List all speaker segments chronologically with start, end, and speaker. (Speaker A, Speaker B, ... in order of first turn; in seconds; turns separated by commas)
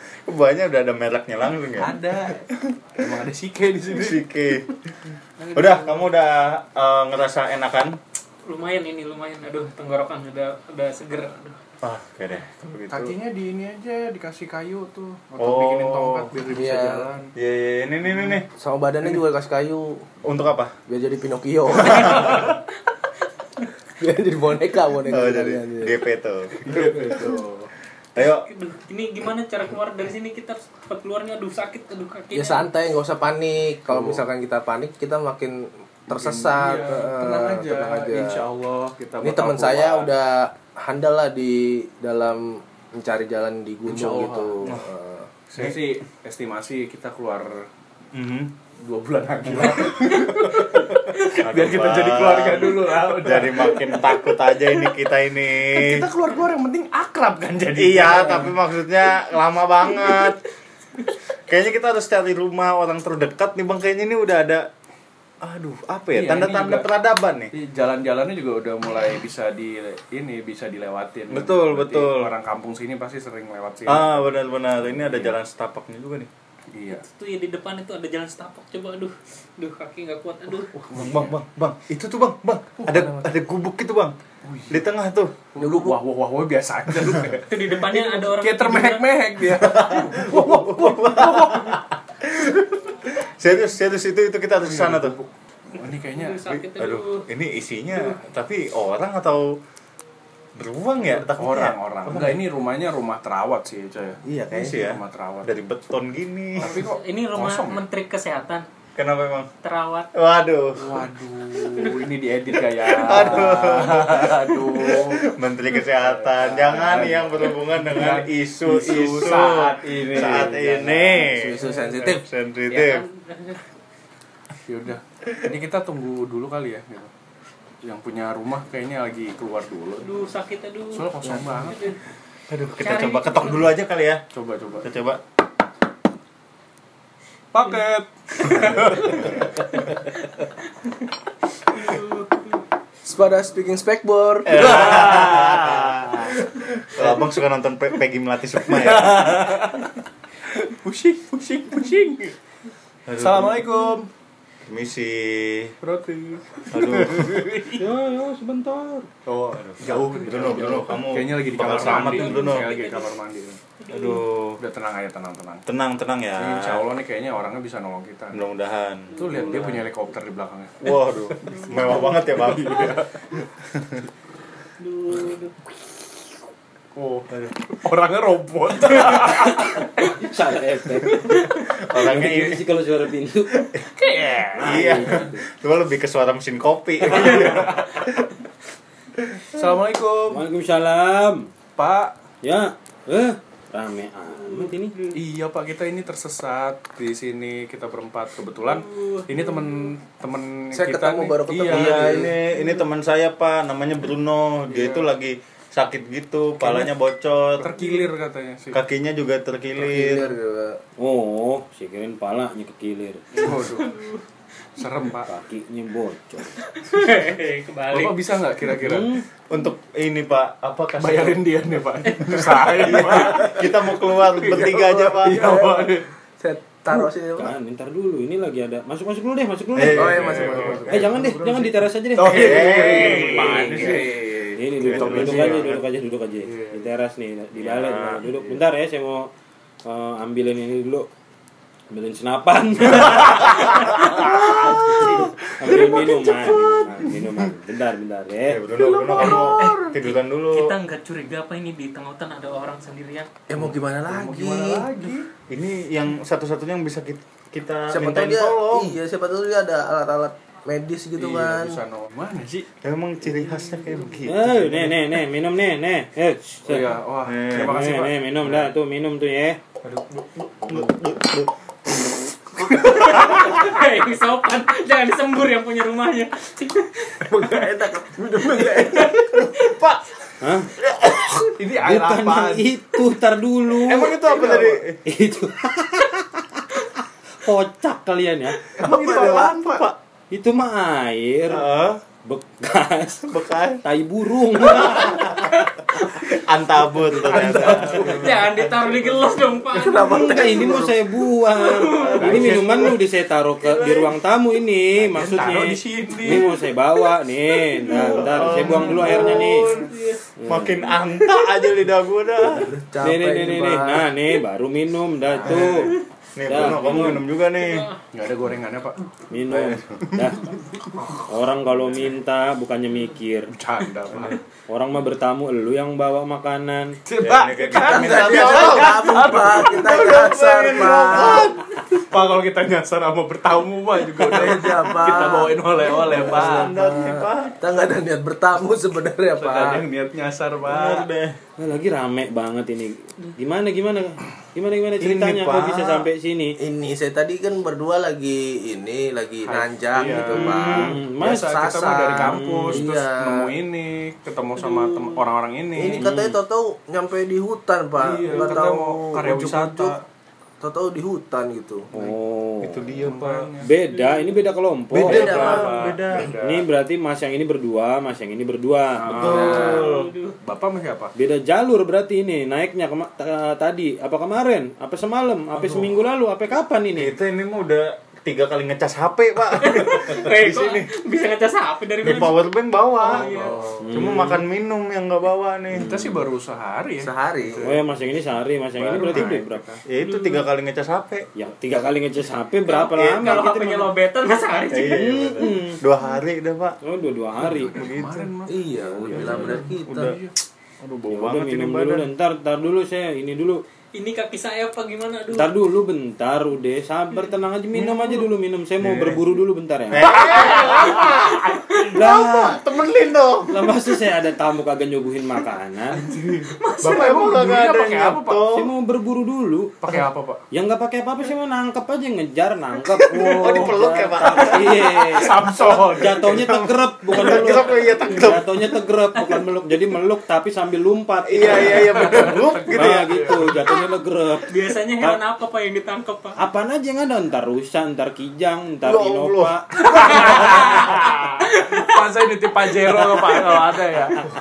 Speaker A: 0.2-1.9, Speaker B: 1.8-4.3, Speaker A: 3.9-4.8, Speaker B: 5.4-6.0, Speaker A: 5.5-8.0, Speaker C: 8.4-11.6, Speaker A: 11.8-13.1, Speaker B: 12.9-17.3, Speaker A: 15.4-16.3, Speaker D: 16.5-17.1, Speaker A: 17.3-18.5, Speaker D: 18.6-20.1, Speaker A: 20.2-20.7, Speaker D: 20.9-22.6, Speaker A: 21.8-22.5, Speaker C: 21.9-22.5, Speaker D: 24.0-26.1, Speaker A: 25.0-26.6, Speaker B: 26.6-27.7, Speaker D: 26.7-27.4, Speaker A: 28.1-28.4, Speaker C: 28.2-32.7, Speaker D: 32.3-38.4, Speaker B: 33.9-34.2, Speaker B: 36.1-40.1, Speaker D: 39.2-45.3, Speaker B: 43.8-44.7, Speaker B: 45.5-47.6, Speaker A: 48.1-48.5, Speaker B: 48.8-54.0, Speaker A: 49.5-56.0, Speaker B: 55.6-58.5, Speaker A: 57.8-60.4, Speaker A: 61.5-64.7, Speaker A: 65.4-67.5, Speaker B: 66.1-66.9, Speaker B: 67.5-74.3, Speaker A: 71.3-72.3, Speaker A: 73.8-76.3, Speaker B: 75.0-75.3, Speaker B: 76.7-77.0, Speaker C: 77.0-80.8, Speaker B: 80.8-81.4, Speaker A: 80.9-84.2, Speaker B: 82.8-83.2, Speaker B: 84.4-84.8, Speaker A: 84.7-85.5, Speaker B: 85.5-91.8, Speaker D: 85.6-86.0, Speaker C: 87.5-89.1, Speaker A: 89.5-95.2, Speaker B: 94.6-96.4, Speaker C: 96.1-97.2, Speaker A: 96.5-99.6, Speaker A: 100.5-102.4, Speaker B: 101.0-105.5, Speaker D: 104.2-104.8, Speaker A: 104.5-106.8, Speaker B: 106.6-107.8, Speaker C: 106.6-108.7, Speaker A: 109.0-109.5, Speaker C: 109.6-110.1, Speaker A: 110.1-111.0, Speaker B: 110.8-115.2, Speaker C: 111.6-112.1, Speaker C: 112.8-113.6, Speaker A: 113.0-123.0, Speaker B: 116.0-120.9, Speaker D: 120.3-122.2, Speaker B: 121.6-122.1, Speaker C: 122.7-123.6, Speaker B: 124.7-127.1, Speaker B: 127.8-130.1, Speaker C: 130.0-132.0, Speaker B: 130.9-131.9, Speaker A: 132.5-134.2, Speaker C: 132.8-133.7, Speaker B: 134.3-134.9, Speaker A: 134.8-135.2, Speaker B: 137.5-139.9, Speaker C: 141.7-142.6, Speaker D: 143.0-145.3, Speaker A: 144.4-149.4, Speaker B: 144.5-145.9, Speaker B: 148.6-149.9, Speaker B: 150.4-152.3, Speaker A: 153.1-153.7, Speaker B: 153.2-154.1, Speaker A: 154.7-155.7, Speaker B: 155.8-157.8, Speaker A: 156.7-162.8, Speaker B: 159.2-163.6, Speaker C: 161.8-163.1, Speaker C: 163.8-164.2, Speaker A: 163.9-164.6, Speaker B: 164.6-165.6, Speaker A: 165.7-166.8, Speaker B: 166.3-168.4, Speaker A: 168.3-169.8, Speaker B: 169.1-170.9, Speaker C: 169.2-169.5, Speaker A: 170.8-173.0, Speaker C: 171.4-172.0, Speaker B: 171.6-173.5, Speaker C: 174.8-175.6, Speaker B: 176.9-179.9, Speaker E: 179.2-181.4, Speaker B: 180.9-181.4, Speaker C: 181.3-181.7, Speaker A: 181.8-182.6, Speaker E: 181.9-183.7, Speaker B: 183.9-184.9, Speaker E: 184.6-185.4, Speaker A: 184.6-188.3, Speaker B: 187.1-187.9, Speaker B: 189.5-190.4, Speaker E: 190.3-191.5, Speaker B: 191.8-192.1, Speaker E: 192.4-194.9, Speaker C: 194.3-195.2, Speaker B: 195.1-202.3, Speaker C: 198.6-199.8, Speaker D: 200.7-202.3, Speaker A: 201.7-207.8, Speaker B: 204.7-205.1, Speaker B: 206.6-206.9, Speaker B: 207.6-208.8, Speaker A: 208.7-210.4, Speaker D: 209.8-210.8, Speaker E: 211.0-213.5, Speaker B: 213.3-214.0, Speaker C: 213.6-214.2, Speaker B: 214.8-215.3, Speaker E: 215.2-216.6, Speaker C: 216.7-218.2, Speaker B: 217.9-219.1, Speaker E: 218.8-219.2, Speaker A: 219.5-221.4, Speaker B: 221.0-226.1, Speaker C: 222.2-222.9, Speaker A: 222.8-225.5, Speaker D: 225.2-227.5, Speaker E: 227.3-239.3, Speaker A: 229.7-231.2, Speaker D: 229.9-231.1, Speaker B: 230.2-231.6, Speaker B: 232.2-235.8, Speaker A: 232.2-234.1, Speaker A: 234.8-235.8, Speaker B: 236.4-236.8, Speaker A: 237.6-238.3, Speaker E: 239.8-241.1, Speaker E: 241.9-248.6, Speaker A: 243.1-243.4, Speaker A: 244.0-245.3, Speaker B: 244.2-246.7, Speaker A: 248.5-250.8, Speaker C: 249.2-253.3, Speaker B: 249.2-249.5, Speaker D: 253.5-254.9, Speaker B: 253.5-255.3, Speaker A: 255.5-259.0, Speaker D: 257.9-261.8, Speaker B: 261.1-262.7, Speaker A: 262.8-264.9, Speaker E: 264.2-266.9, Speaker B: 266.7-268.1, Speaker A: 267.3-267.8, Speaker E: 267.5-269.6, Speaker A: 269.8-273.6, Speaker C: 272.8-277.2, Speaker D: 277.3-279.4, Speaker B: 277.4-277.7, Speaker B: 278.3-279.1, Speaker C: 278.9-279.8, Speaker A: 279.5-280.0, Speaker E: 280.4-280.7, Speaker B: 281.5-282.7, Speaker E: 281.8-284.3, Speaker A: 283.8-285.0, Speaker B: 284.3-284.7, Speaker E: 285.0-288.6, Speaker B: 288.8-289.9, Speaker D: 288.8-289.5, Speaker A: 288.8-289.9, Speaker E: 290.3-291.6, Speaker A: 291.5-292.0, Speaker E: 292.2-293.3, Speaker A: 293.3-293.8, Speaker E: 293.8-295.4, Speaker A: 294.5-298.5, Speaker D: 297.2-298.3, Speaker B: 297.3-299.0, Speaker C: 297.5-300.7, Speaker D: 299.7-300.9, Speaker E: 300.0-309.7, Speaker C: 301.5-302.6, Speaker B: 302.2-303.0, Speaker A: 303.6-304.1, Speaker B: 305.0-306.5, Speaker C: 306.3-306.6, Speaker C: 307.6-310.2, Speaker A: 307.9-309.9, Speaker E: 310.4-310.8, Speaker A: 310.5-312.7, Speaker C: 310.9-311.5, Speaker D: 312.4-314.1, Speaker E: 313.0-315.9, Speaker A: 315.4-317.9, Speaker E: 316.5-317.2, Speaker C: 317.0-318.0, Speaker B: 318.1-319.0, Speaker E: 319.3-320.6, Speaker A: 319.5-320.0, Speaker B: 320.1-320.4, Speaker E: 321.2-323.5, Speaker B: 323.5-324.4, Speaker E: 324.2-327.0, Speaker B: 327.1-336.7, Speaker A: 327.2-331.6, Speaker D: 327.7-331.6, Speaker D: 334.2-339.8, Speaker A: 336.1-337.6, Speaker B: 339.3-341.1, Speaker A: 340.6-341.4, Speaker E: 341.6-346.6, Speaker A: 345.0-346.1, Speaker D: 346.6-353.5, Speaker B: 349.4-356.1, Speaker E: 350.2-351.5, Speaker E: 352.1-352.8, Speaker C: 354.6-355.2, Speaker D: 355.8-359.9, Speaker E: 355.9-356.4, Speaker B: 358.0-360.0, Speaker D: 360.6-361.9, Speaker E: 361.9-362.8, Speaker A: 361.9-363.5, Speaker B: 363.0-363.7, Speaker E: 363.6-369.7, Speaker C: 363.8-364.4, Speaker A: 364.9-366.3, Speaker B: 364.9-366.6, Speaker D: 365.0-366.0, Speaker B: 369.0-371.1, Speaker A: 369.1-370.1, Speaker C: 369.3-370.4, Speaker E: 371.1-377.1, Speaker B: 375.6-375.9, Speaker A: 376.9-380.9, Speaker C: 379.5-382.4, Speaker A: 382.0-383.3, Speaker C: 383.0-383.6, Speaker B: 383.1-384.2, Speaker D: 383.4-383.8, Speaker E: 383.8-384.4, Speaker A: 383.9-386.0, Speaker B: 385.7-387.8, Speaker D: 387.0-387.7, Speaker E: 387.6-389.6, Speaker B: 388.8-389.8, Speaker A: 389.9-391.3, Speaker C: 390.0-390.4, Speaker E: 391.3-393.9, Speaker C: 392.6-395.5, Speaker A: 394.7-396.8, Speaker E: 394.7-395.8, Speaker E: 396.8-397.9, Speaker B: 397.4-400.3, Speaker A: 397.7-398.3, Speaker D: 398.5-400.1, Speaker E: 398.7-399.6, Speaker A: 399.9-400.2, Speaker A: 400.8-402.1, Speaker E: 401.1-403.6, Speaker C: 403.9-405.5, Speaker E: 405.3-410.6, Speaker B: 407.7-408.3, Speaker A: 408.8-409.2, Speaker A: 409.9-413.6, Speaker C: 410.2-411.9, Speaker B: 410.3-410.7, Speaker E: 411.9-412.6, Speaker E: 413.5-416.0, Speaker B: 415.9-418.5, Speaker C: 416.5-417.4, Speaker A: 416.8-418.7, Speaker E: 418.5-419.8, Speaker B: 419.8-420.4, Speaker E: 420.5-435.2, Speaker C: 422.8-423.7, Speaker A: 423.4-424.9, Speaker B: 425.0-426.3, Speaker A: 425.5-428.4, Speaker C: 429.1-429.4, Speaker A: 431.2-433.5, Speaker B: 431.6-433.6, Speaker C: 434.4-436.4, Speaker E: 436.4-440.4, Speaker A: 438.8-440.7, Speaker C: 439.8-442.1, Speaker B: 440.0-444.2, Speaker C: 442.7-443.7